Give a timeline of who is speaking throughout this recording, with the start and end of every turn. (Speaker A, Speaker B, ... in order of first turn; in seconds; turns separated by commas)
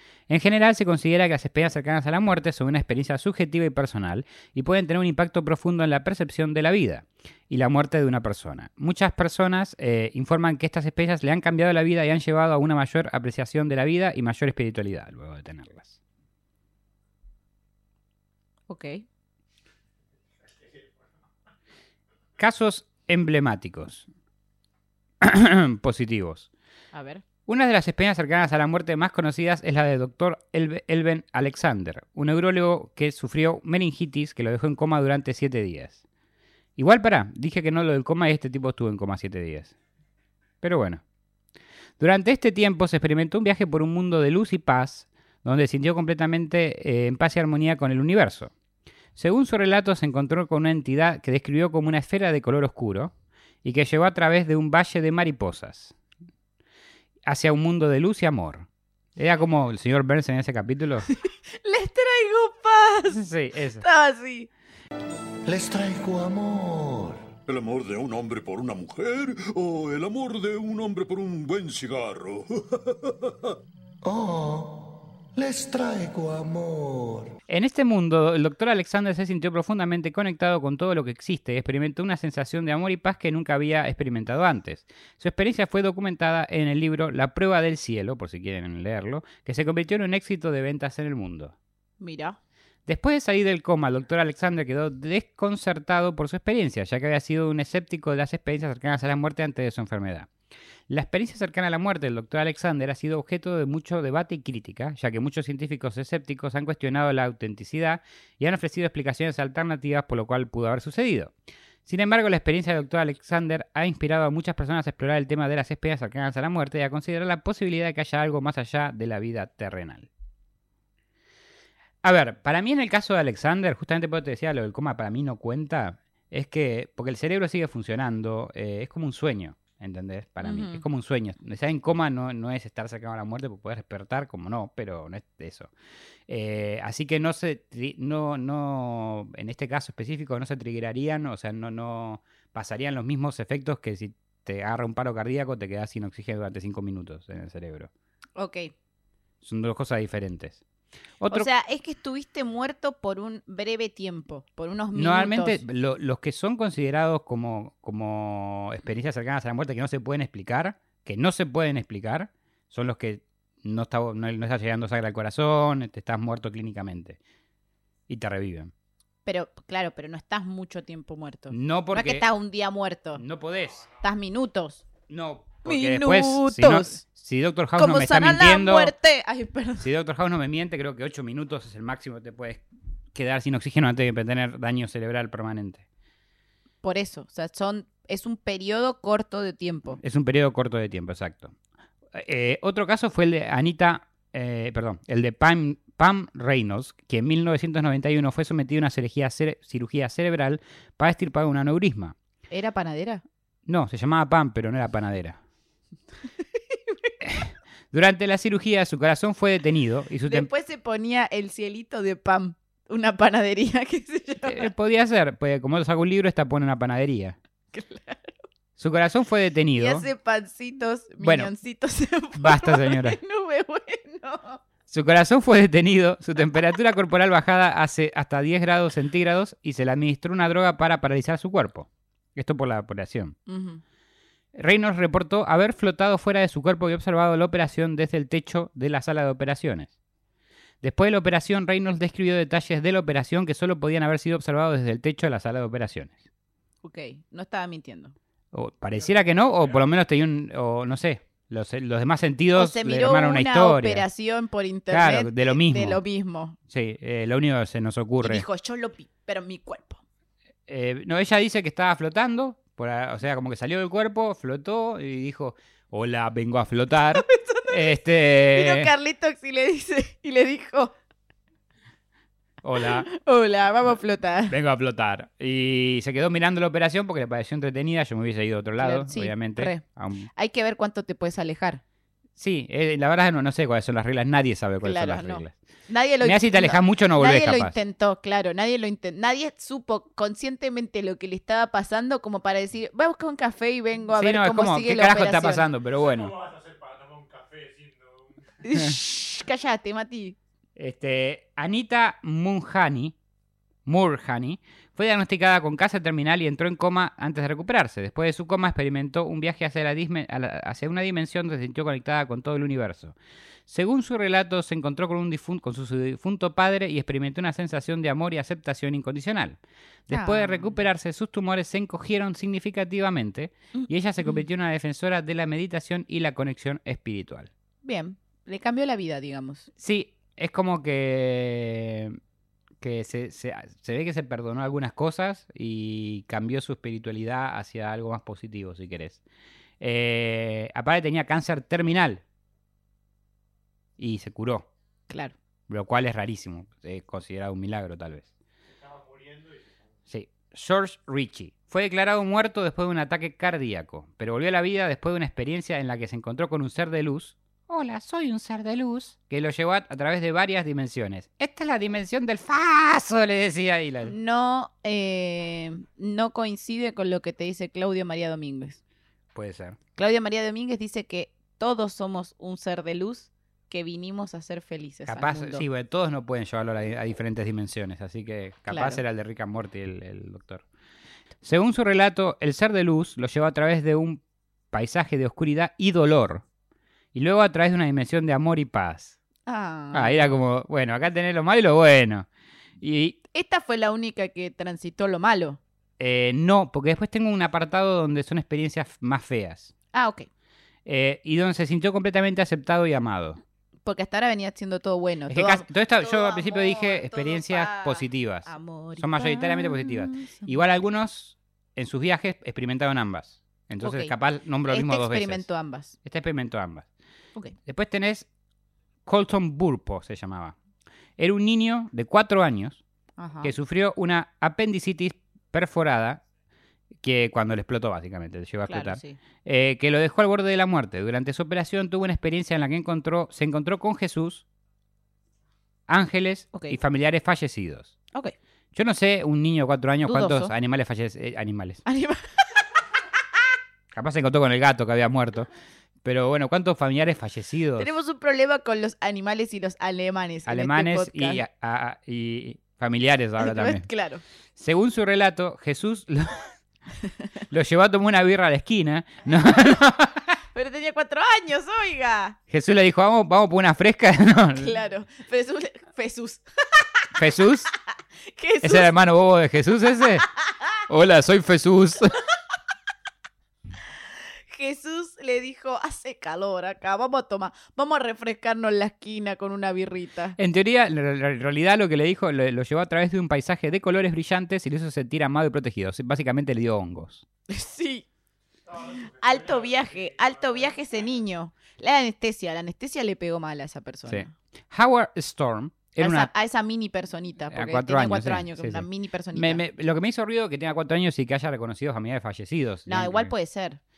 Speaker A: 0.3-16.0, Speaker B: 18.7-19.0, Speaker A: 22.4-24.1, Speaker A: 25.2-26.5, Speaker B: 26.9-27.2, Speaker A: 27.4-36.0, Speaker A: 36.8-39.7, Speaker A: 40.6-41.0, Speaker A: 42.0-48.5, Speaker A: 49.1-53.1, Speaker A: 53.6-55.9, Speaker A: 57.2-61.1, Speaker B: 61.1-63.3, Speaker A: 63.1-63.8, Speaker B: 63.8-64.5, Speaker C: 65.4-67.3, Speaker D: 67.5-73.5, Speaker C: 74.0-77.3, Speaker A: 77.5-91.5, Speaker B: 92.0-92.4, Speaker A: 92.9-100.3, Speaker A: 100.9-111.3, Speaker A: 111.8-120.1, Speaker A: 122.0-135.7, Speaker B: 130.4-130.8, Speaker A: 136.3-147.9, Speaker B: 148.3-148.7, Speaker A: 149.4-150.6, Speaker A: 151.2-151.4, Speaker B: 151.3-155.6, Speaker A: 154.9-167.2, Speaker A: 168.1-168.7, Speaker B: 169.2-173.2, Speaker A: 171.5-172.2, Speaker A: 173.2-173.9, Speaker B: 174.0-174.8, Speaker A: 175.1-178.9, Speaker B: 175.6-177.0, Speaker B: 177.8-179.8, Speaker A: 179.8-182.6, Speaker A: 183.1-185.8, Speaker B: 186.8-190.0, Speaker A: 190.0-191.5, Speaker A: 192.1-202.1, Speaker B: 202.5-203.2, Speaker A: 203.7-205.4, Speaker B: 206.7-207.1, Speaker A: 207.2-210.5, Speaker B: 210.3-214.7, Speaker A: 214.4-217.4, Speaker B: 217.7-218.4, Speaker A: 218.8-220.1, Speaker B: 219.8-224.6, Speaker A: 221.2-221.5, Speaker A: 222.3-223.2, Speaker A: 224.9-233.3, Speaker B: 233.5-233.8, Speaker A: 234.6-239.9, Speaker A: 240.8-246.2, Speaker B: 246.8-248.1, Speaker A: 248.5-254.1, Speaker B: 252.6-256.6, Speaker A: 254.9-256.0, Speaker A: 256.7-258.4, Speaker B: 258.2-260.0, Speaker A: 260.7-268.9, Speaker B: 267.1-270.9, Speaker A: 272.6-273.1, Speaker B: 272.8-274.5, Speaker A: 274.5-280.3, Speaker B: 278.8-281.8, Speaker A: 282.4-285.6, Speaker B: 284.8-295.7, Speaker A: 286.2-287.8, Speaker A: 294.2-296.5, Speaker B: 298.6-300.4, Speaker A: 300.8-303.1, Speaker A: 303.9-313.1, Speaker A: 313.7-327.5, Speaker B: 320.1-320.8, Speaker B: 323.7-324.4, Speaker B: 327.8-329.7, Speaker A: 329.8-332.2, Speaker A: 332.8-339.2, Speaker A: 339.8-342.2, Speaker A: 344.0-344.7, Speaker B: 345.1-345.3, Speaker A: 345.7-348.3, Speaker A: 350.1-364.1, Speaker B: 364.1-368.8, Speaker A: 369.3-369.8, Speaker B: 370.0-375.6, Speaker A: 375.1-380.6, Speaker B: 378.7-379.0, Speaker A: 381.4-384.2, Speaker A: 384.7-386.4, Speaker A: 387.1-389.2, Speaker B: 389.4-390.3, Speaker A: 389.9-392.3, Speaker A: 392.8-393.2, Speaker B: 393.3-395.6, Speaker A: 396.0-399.7, Speaker B: 399.9-400.3, Speaker A: 400.9-403.4, Speaker B: 403.8-410.5, Speaker A: 405.3-415.4, Speaker B: 413.8-414.1, Speaker B: 414.7-416.0, Speaker A: 416.0-416.9, Speaker A: 417.6-418.3, Speaker A: 419.1-420.6, Speaker A: 421.2-422.8, Speaker B: 423.2-423.5, Speaker A: 423.4-426.2, Speaker A: 427.0-434.4, Speaker B: 428.7-429.2, Speaker A: 435.9-437.9, Speaker A: 438.7-441.8, Speaker B: 440.1-440.5, Speaker B: 441.9-442.6, Speaker A: 443.9-445.5, Speaker A: 446.0-447.9, Speaker B: 447.8-451.4, Speaker A: 450.5-453.8, Speaker B: 453.4-454.2, Speaker A: 454.6-456.5, Speaker A: 457.5-460.3, Speaker B: 460.5-462.4, Speaker A: 462.5-464.7, Speaker B: 464.6-467.1, Speaker A: 467.1-467.7, Speaker B: 468.3-468.9, Speaker A: 468.6-470.2, Speaker A: 470.9-472.2, Speaker B: 474.5-480.4, Speaker A: 480.4-487.2, Speaker B: 487.5-488.0, Speaker B: 488.7-494.3, Speaker A: 494.1-496.3, Speaker B: 496.0-499.6, Speaker A: 497.5-503.3, Speaker B: 502.9-503.8